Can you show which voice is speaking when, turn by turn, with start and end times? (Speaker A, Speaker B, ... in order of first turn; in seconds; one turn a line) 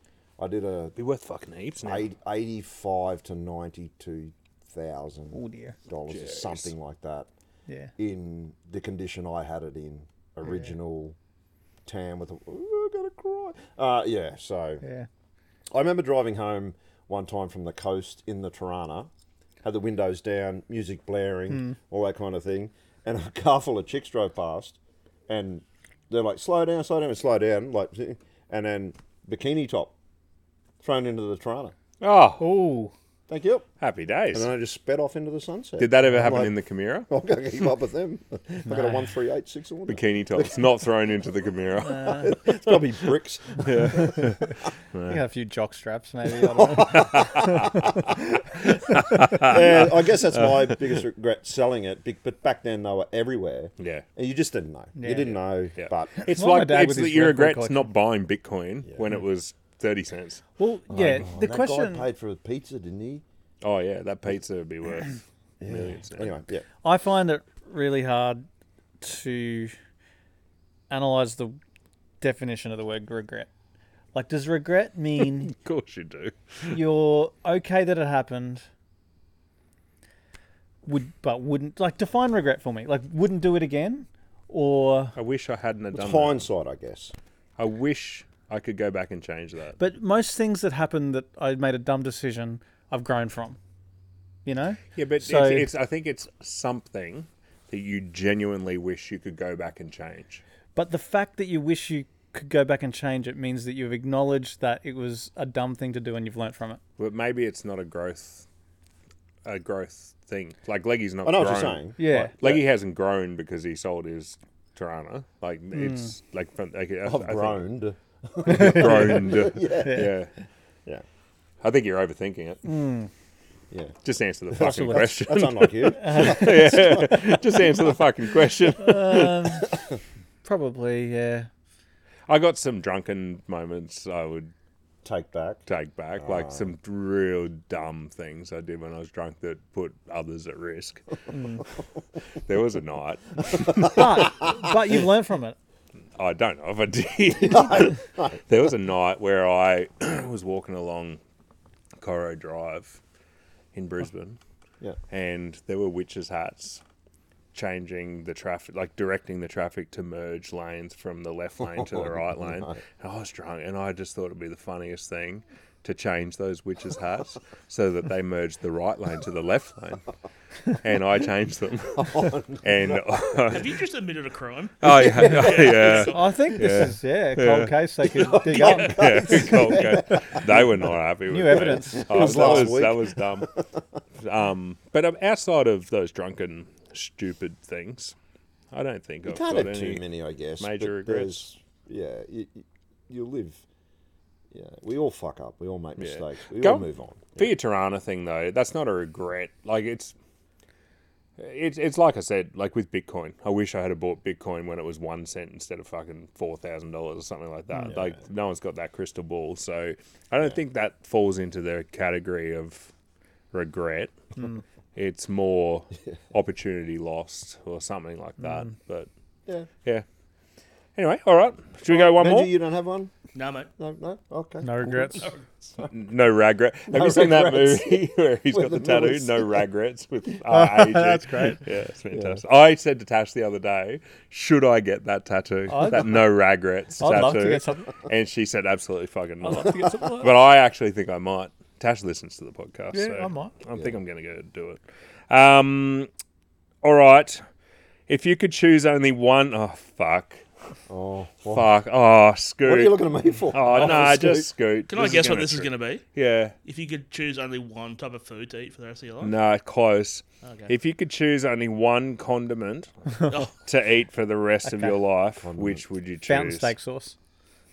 Speaker A: 0.4-1.0
Speaker B: 1.0-2.0
Speaker A: 1.8-7.3
Speaker C: 5.3-5.8
Speaker B: 6.1-6.7
Speaker A: 8.0-11.2
Speaker A: 11.9-14.8
Speaker C: 14.8-15.1
Speaker A: 15.7-19.1
Speaker A: 19.6-29.9
Speaker C: 21.5-21.8
Speaker A: 30.8-31.7
Speaker B: 32.0-32.5
Speaker C: 32.4-32.9
Speaker A: 33.3-33.7
Speaker B: 33.8-34.5
Speaker A: 34.3-36.5
Speaker B: 35.8-37.1
Speaker A: 37.1-40.7
Speaker C: 38.7-39.0
Speaker B: 39.9-42.8
Speaker C: 41.8-42.3
Speaker A: 42.2-44.4
Speaker B: 43.6-44.4
Speaker B: 44.9-45.2
Speaker C: 45.1-48.2
Speaker A: 46.4-48.0
Speaker B: 46.8-47.8
Speaker B: 48.6-50.8
Speaker A: 49.2-56.2
Speaker B: 53.8-54.1
Speaker C: 55.0-55.4
Speaker B: 55.8-60.5
Speaker C: 56.1-57.9
Speaker C: 60.6-62.1
Speaker A: 60.9-63.2
Speaker B: 63.6-66.4
Speaker A: 65.6-66.6
Speaker C: 66.8-68.5
Speaker C: 69.0-69.8
Speaker C: 70.9-71.6
Speaker C: 72.2-73.5
Speaker C: 74.2-75.5
Speaker B: 75.5-76.8
Speaker C: 76.7-78.7
Speaker C: 80.9-85.2
Speaker B: 85.2-86.5
Speaker A: 85.9-87.1
Speaker B: 87.6-89.8
Speaker C: 89.8-93.6
Speaker C: 94.5-95.7
Speaker B: 95.0-100.4
Speaker C: 100.8-106.8
Speaker B: 107.0-108.5
Speaker B: 109.5-117.6
Speaker A: 111.2-112.7
Speaker C: 112.0-112.3
Speaker C: 115.7-116.1
Speaker A: 117.0-120.1
Speaker C: 118.5-120.1
Speaker B: 118.5-120.3
Speaker B: 121.6-122.6
Speaker C: 122.7-123.1
Speaker B: 124.0-129.5
Speaker A: 124.5-127.1
Speaker C: 124.6-125.0
Speaker C: 126.0-127.1
Speaker C: 128.8-129.7
Speaker C: 130.4-131.5
Speaker B: 132.3-134.5
Speaker A: 135.0-135.6
Speaker B: 135.7-141.1
Speaker A: 136.2-136.7
Speaker C: 141.3-141.6
Speaker B: 142.5-144.3
Speaker C: 143.8-145.6
Speaker B: 146.2-151.2
Speaker A: 147.4-148.4
Speaker B: 152.0-153.0
Speaker B: 153.7-154.4
Speaker B: 155.1-156.8
Speaker B: 157.5-170.1
Speaker A: 161.8-162.8
Speaker B: 170.8-173.8
Speaker A: 171.9-173.6
Speaker D: 173.5-176.3
Speaker B: 174.8-177.7
Speaker C: 175.2-179.9
Speaker A: 178.1-180.8
Speaker B: 178.5-183.5
Speaker D: 178.6-178.9
Speaker C: 181.3-182.7
Speaker A: 181.5-183.6
Speaker B: 184.2-188.2
Speaker B: 188.7-190.0
Speaker A: 189.2-193.6
Speaker B: 190.6-191.4
Speaker A: 194.5-197.5
Speaker B: 196.0-200.2
Speaker B: 201.4-212.9
Speaker B: 213.5-214.2
Speaker B: 214.9-219.1
Speaker B: 221.0-222.5
Speaker A: 221.9-223.1
Speaker D: 223.3-223.7
Speaker A: 223.8-225.9
Speaker C: 224.6-225.3
Speaker D: 225.2-225.4
Speaker B: 225.9-246.1
Speaker A: 226.9-229.5
Speaker C: 230.5-231.6
Speaker A: 232.1-232.4
Speaker C: 235.7-236.3
Speaker C: 237.0-237.9
Speaker C: 239.4-240.3
Speaker C: 242.9-243.5
Speaker B: 246.8-247.4
Speaker B: 248.1-250.4
Speaker A: 250.9-251.7
Speaker B: 251.5-256.5
Speaker A: 252.6-254.5
Speaker D: 254.9-256.0
Speaker D: 256.6-259.3
Speaker B: 259.2-262.9
Speaker D: 260.4-260.7
Speaker B: 263.4-266.7
Speaker C: 264.7-265.0
Speaker A: 265.4-265.8
Speaker C: 266.3-267.1